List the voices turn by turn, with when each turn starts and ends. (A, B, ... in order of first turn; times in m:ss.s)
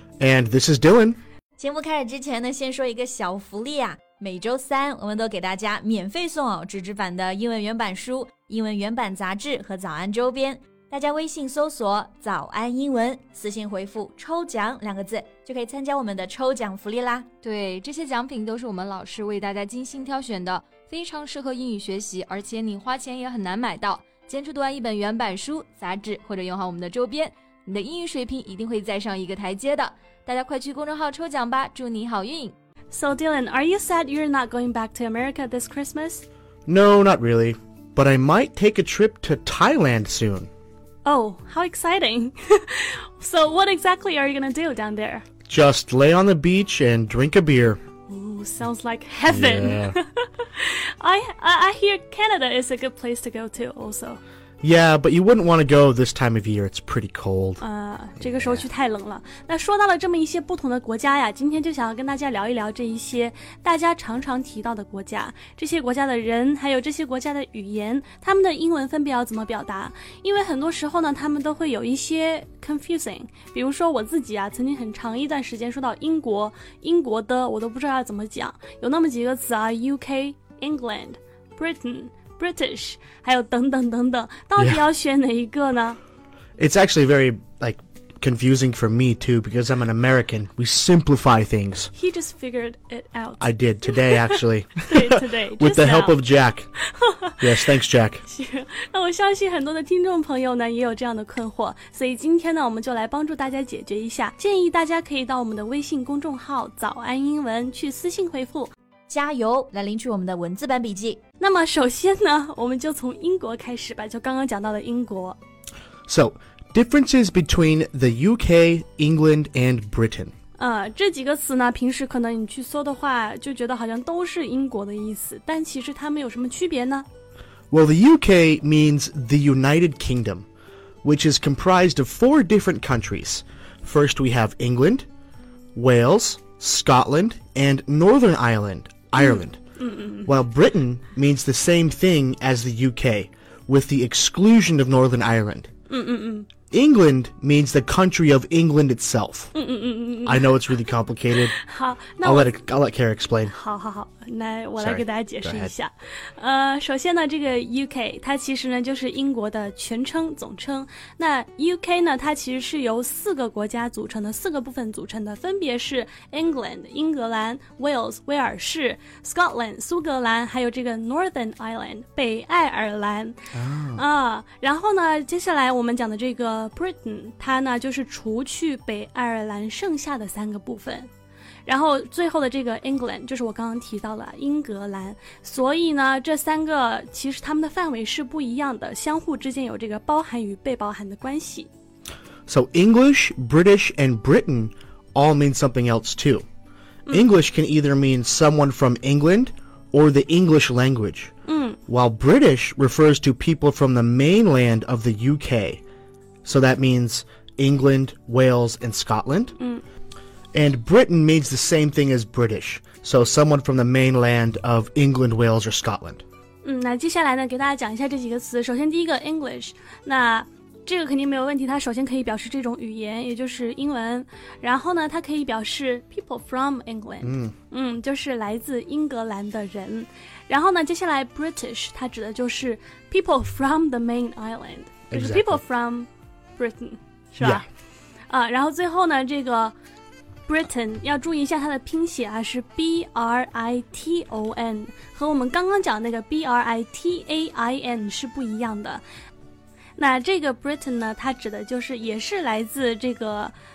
0:00.2-0:01.2 A
0:01.6-0:17.3 B
0:17.4-0:32.5 C
0:32.9-0:36.2 D
0:36.7-0:40.5 A
0:41.0-0:45.2 D
0:45.5-0:47.8 A
0:48.1-0:54.2 D
0:49.2-0:50.0 A
0:54.6-0:57.6 A
0:57.6-1:26.0 D
0:58.2-0:58.6 A
1:24.6-1:24.8 A
1:26.6-1:31.9 A
1:31.9-1:36.2 D
1:33.4-1:36.7 A
1:36.9-1:37.4 D
1:37.4-1:38.2 A
1:38.2-1:48.7 D
1:49.1-1:51.2 B
1:51.4-1:55.4 D
1:56.1-2:00.3 A
2:00.6-2:07.0 D
2:07.7-2:10.5 A
2:11.0-2:15.1 A
2:15.7-2:19.6 A
2:19.2-2:20.3 D
2:20.2-2:25.7 A
2:25.9-2:26.5 D
2:26.7-2:29.5 A
2:29.5-2:30.7 D
2:30.2-2:31.5 A
2:31.4-2:32.5 D
2:32.2-2:33.5 A
2:33.5-2:53.4 D
2:34.8-2:35.7 A
2:53.5-2:54.0 A
2:53.9-3:01.1 D
3:01.6-3:11.7 D
3:12.5-3:16.4 A
3:17.1-3:21.3 A
3:21.5-3:21.8 D
3:21.9-3:25.8 A
3:26.4-3:29.5 A
3:30.5-3:36.2 A
3:36.6-3:57.6 D
3:47.2-3:47.5 A
3:55.1-3:55.6 A
3:58.3-3:59.7 D
4:00.5-4:09.0 D
4:10.0-4:13.5 D